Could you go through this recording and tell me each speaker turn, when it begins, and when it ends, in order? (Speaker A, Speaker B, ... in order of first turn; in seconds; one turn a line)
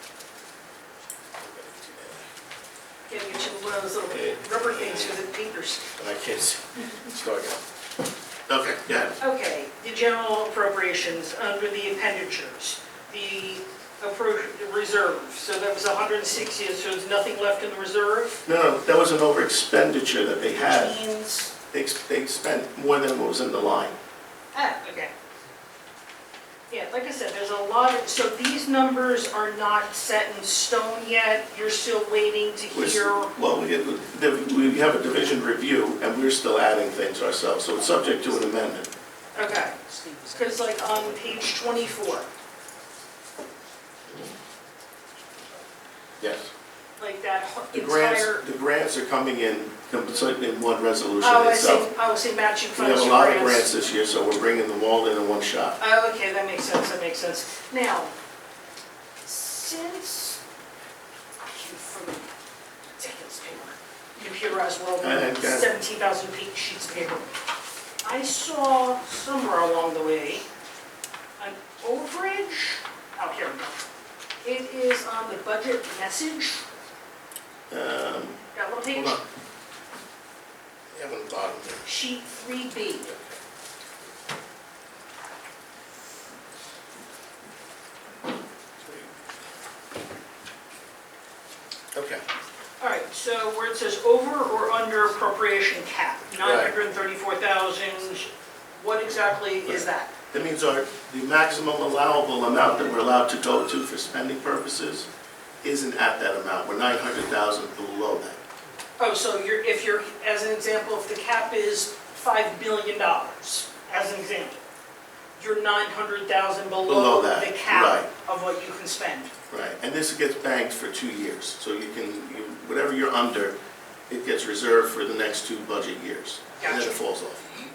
Speaker A: 1.4-2.2
Speaker B: 3.1-5.9
Speaker A: 4.1-5.1
Speaker A: 6.0-7.6
Speaker A: 8.5-9.2
Speaker B: 9.2-18.4
Speaker A: 18.4-20.9
Speaker B: 20.6-21.5
Speaker A: 21.7-23.9
Speaker B: 24.5-25.1
Speaker B: 26.7-33.3
Speaker A: 32.7-38.9
Speaker B: 39.3-42.3
Speaker A: 44.1-44.3
Speaker A: 46.2-46.5
Speaker B: 47.0-48.4
Speaker A: 47.7-51.9
Speaker B: 51.2-53.7
Speaker A: 52.7-55.8
Speaker B: 55.8-58.1
Speaker B: 59.2-60.4
Speaker B: 61.5-62.3
Speaker B: 63.0-67.3
Speaker A: 65.0-65.7
Speaker B: 68.0-70.4
Speaker B: 71.4-73.8
Speaker B: 74.4-76.6
Speaker A: 77.7-78.4
Speaker B: 78.5-79.2
Speaker A: 78.9-79.2
Speaker A: 80.9-81.8
Speaker B: 81.8-83.1
Speaker A: 83.0-83.4
Speaker A: 88.8-89.1
Speaker A: 91.9-92.2
Speaker B: 92.8-100.1
Speaker A: 96.4-96.7
Speaker A: 99.7-105.1
Speaker A: 105.6-108.4
Speaker B: 109.0-114.6
Speaker B: 115.4-119.3
Speaker A: 116.8-118.1
Speaker A: 119.5-123.5
Speaker A: 124.1-127.5
Speaker B: 126.6-127.0